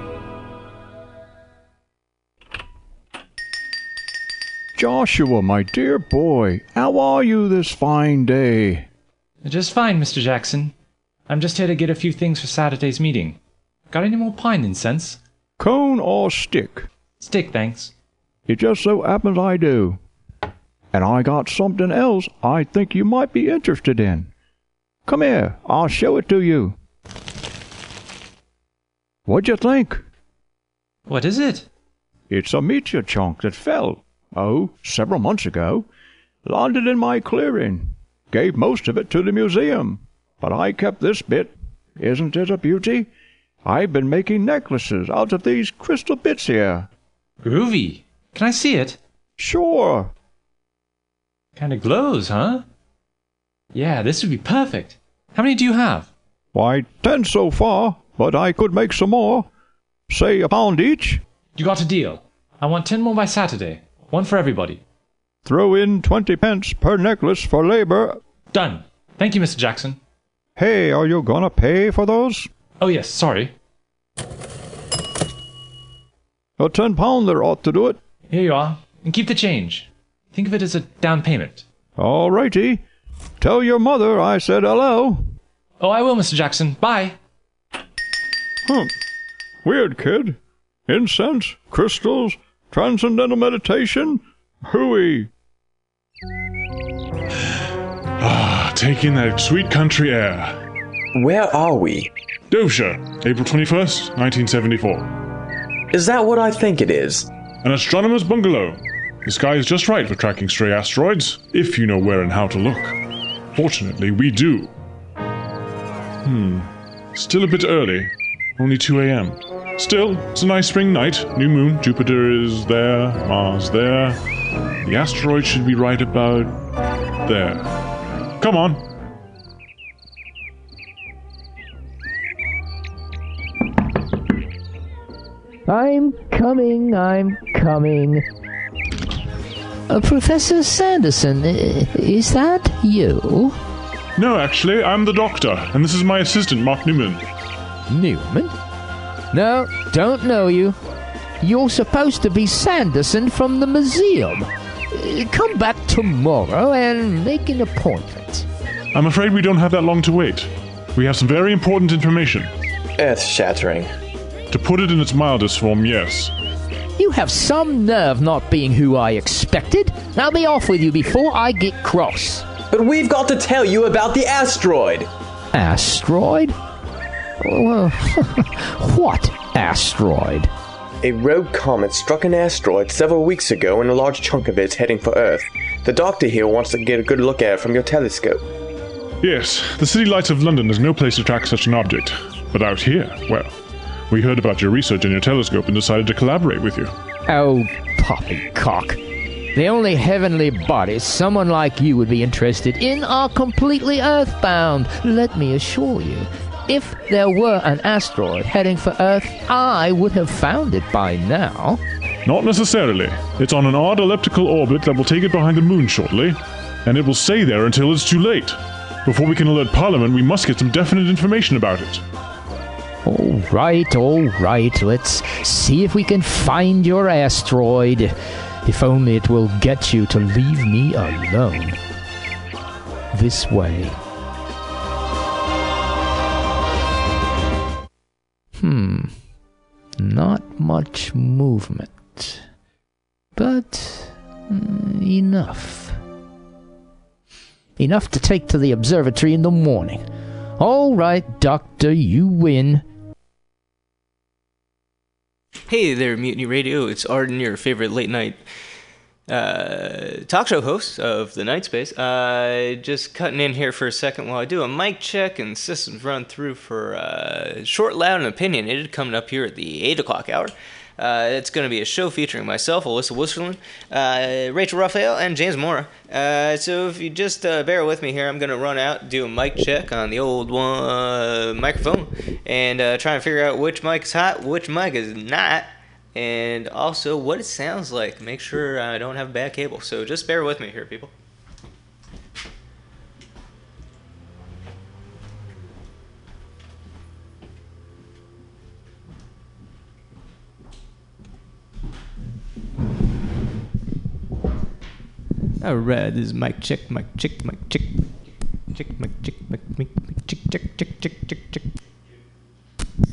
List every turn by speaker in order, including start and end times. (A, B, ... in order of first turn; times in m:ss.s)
0:05.6-0:07.8 A
0:08.3-0:08.8 A
0:09.4-0:10.7 B
0:11.3-0:13.4 B
0:13.9-0:15.2 B
0:15.6-0:15.9 A
0:17.2-0:17.9 B
0:18.5-0:18.7 A
0:19.6-0:20.0 A
0:22.7-0:24.3 A
0:25.1-0:26.7 A
0:29.3-0:30.0 A
0:31.1-0:31.7 B
0:32.3-0:35.6 A
0:36.5-0:36.9 A
0:38.3-0:41.5 A
0:42.0-0:43.1 A
0:43.7-0:46.9 A
0:47.4-0:49.0 B
0:49.4-0:50.1 A
0:51.6-0:52.6 B
0:53.7-0:56.1 B
0:57.9-0:59.5 A
1:00.1-1:01.2 A
1:01.6-1:04.8 B
1:05.5-1:06.0 A
1:07.0-1:08.2 A
1:08.5-1:10.0 B
1:11.5-1:12.4 A
1:12.8-1:13.5 B
1:18.3-1:21.6 B
1:22.0-1:22.8 A
1:23.4-1:23.8 A
1:24.6-1:25.1 A
1:25.8-1:27.2 B
1:34.6-1:35.2 A
1:38.2-1:40.6 C
1:41.2-1:42.1 D
1:42.5-1:45.1 C
1:45.9-1:47.3 D
1:47.6-1:53.0 C
1:53.5-1:54.7 C
1:56.2-2:04.2 C
2:04.8-2:06.6 C
2:07.2-2:07.8 C
2:08.4-2:08.8 C
2:15.7-2:18.2 E
2:19.9-2:23.6 E
2:24.2-2:27.2 C
2:27.9-2:28.5 E
2:29.3-2:30.8 E
2:31.4-2:38.5 E
2:38.9-2:42.5 C
2:43.0-2:43.9 D
2:44.5-2:46.3 C
2:47.0-2:52.4 E
2:52.7-2:55.1 D
2:55.5-2:56.6 E
2:57.4-3:00.5 E
3:01.0-3:08.4 D
3:09.2-3:13.6 C
3:14.1-3:16.9 C
3:17.3-3:19.0 E
3:19.5-3:31.8 E
3:32.3-3:42.0 C
3:43.0-3:51.8 E
3:53.1-3:54.0 E
3:58.6-3:59.2 E
4:00.0-4:02.4 E
4:03.4-4:06.0 E
4:07.8-4:12.8 E
4:15.7-4:18.4 F
4:19.3-4:51.1 F
5:05.6-5:08.2 F
5:08.7-5:11.7 F